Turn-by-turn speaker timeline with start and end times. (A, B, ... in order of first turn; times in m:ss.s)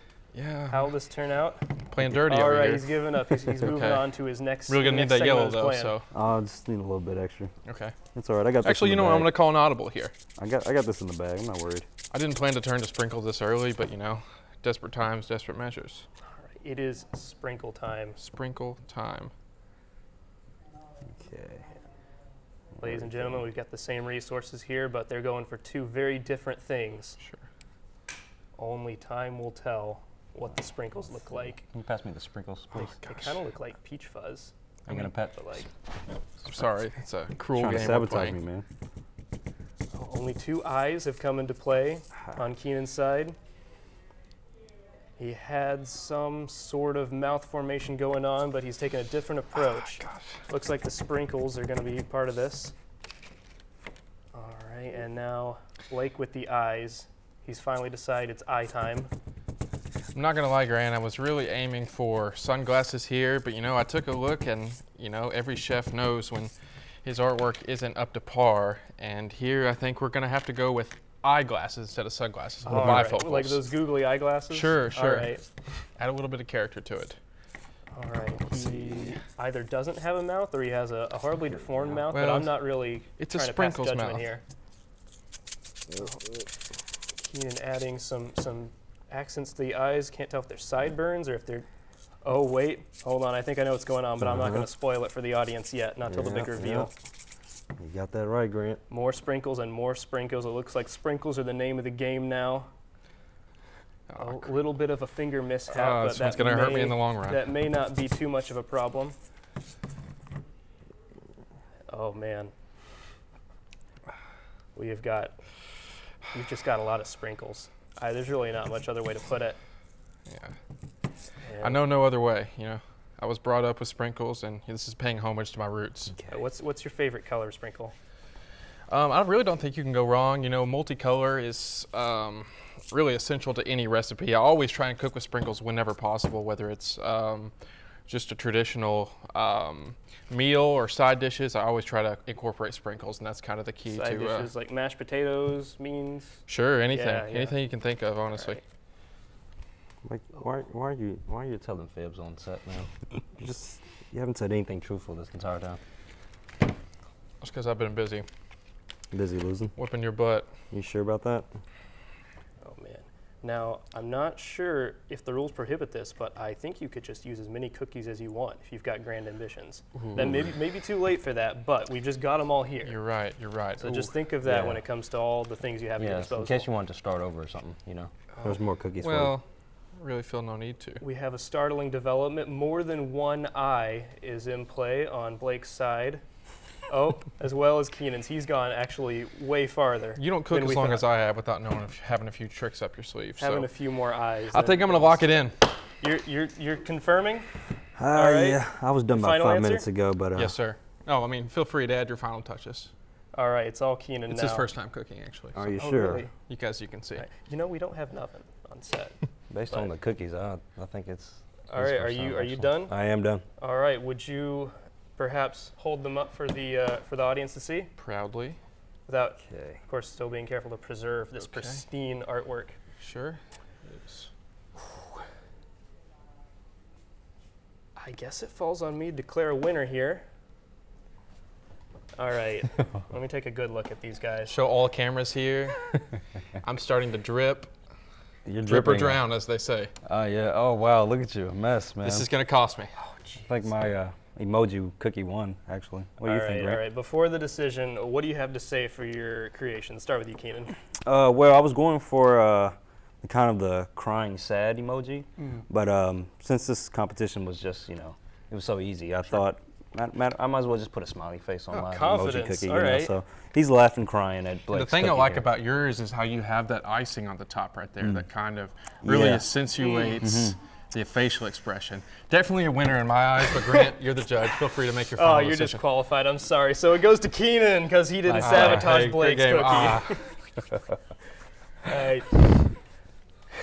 0:00.3-0:00.9 A
0:00.7-0:06.0 B
0:01.9-0:04.1 A
0:04.7-0:06.1 A
0:06.1-0:07.5 C
0:07.7-0:08.0 A
0:08.1-0:09.3 C
0:08.6-0:10.1 A
0:10.4-0:11.9 C
0:12.1-0:16.1 A
0:16.2-0:18.2 B
0:18.2-0:19.3 A
0:21.1-0:21.7 C
0:22.8-0:23.4 C
0:22.8-0:27.2 B
0:28.6-0:31.6 B
0:31.6-0:33.0 C
0:32.8-0:33.4 A
0:32.9-0:34.5 B
0:34.8-0:35.4 C
0:35.1-0:35.7 B
0:36.4-0:38.4 A
0:37.5-0:38.6 C
0:39.9-0:43.4 B
0:45.2-0:52.7 B
0:49.6-0:50.4 A
0:54.3-0:59.1 B
1:00.1-1:13.6 A
1:12.6-1:15.4 B
1:12.7-1:13.0 C
1:14.5-1:17.2 A
1:17.9-1:24.4 B
1:22.1-1:24.3 A
1:26.0-1:26.3 B
1:27.2-1:31.7 B
1:32.2-1:36.9 B
1:34.3-1:34.6 C
1:36.1-1:36.9 C
1:37.8-1:38.8 C
1:38.9-1:42.7 B
1:44.1-1:44.6 A
1:44.2-1:49.2 B
1:45.7-1:47.4 A
1:51.9-1:52.5 B
1:54.8-1:55.4 B
1:56.3-1:59.6 B
2:00.3-2:00.6 A
2:01.4-2:01.8 B
2:01.6-2:06.2 A
2:06.3-2:07.9 B
2:08.9-2:17.5 A
2:18.1-2:24.5 A
2:23.8-2:27.6 B
2:26.5-2:28.6 A
2:28.3-2:28.6 B
2:30.0-2:35.8 C
2:37.4-2:38.2 A
2:39.1-2:39.8 C
2:39.8-2:40.5 A
2:40.7-2:41.5 C
2:42.6-2:53.0 B
2:50.0-2:50.4 A
2:52.8-2:54.1 A
2:53.8-2:56.7 B
2:54.4-2:54.8 C
2:56.0-2:59.4 C
2:58.4-2:59.4 A
3:00.0-3:01.0 A
3:01.0-3:06.2 B
3:06.9-3:11.0 B
3:10.2-3:15.6 A
3:13.4-3:15.4 B
3:16.0-3:19.9 B
3:18.0-3:20.6 C
3:20.3-3:22.9 A
3:23.3-3:24.7 B
3:24.3-3:25.8 A
3:25.6-3:26.2 C
3:25.8-3:26.3 B
3:26.4-3:27.3 A
3:27.2-3:29.9 B
3:29.5-3:33.4 C
3:31.7-3:33.0 B
3:33.6-3:37.9 B
3:38.0-3:38.6 A
3:39.1-3:42.8 B
3:39.4-3:39.8 C
3:41.4-3:41.8 A
3:43.0-3:44.3 A
3:48.0-3:50.2 B
3:52.2-3:54.6 B
3:54.5-3:56.1 A
3:56.6-3:57.7 A
3:58.4-3:59.3 C
3:58.6-3:59.9 A
4:00.0-4:02.3 C
4:02.0-4:02.9 A
4:03.0-4:03.4 B
4:03.4-4:06.8 C
4:06.2-4:10.7 B
4:11.0-4:25.5 C
4:15.4-4:15.6 B
4:21.7-4:22.0 A
4:21.8-4:23.2 B
4:24.7-4:35.8 A
4:29.0-4:29.5 C
4:29.8-4:30.2 B
4:30.2-4:30.6 C
4:35.2-4:40.4 B
4:38.2-4:38.9 C
4:38.4-4:40.3 A
4:41.8-4:42.8 B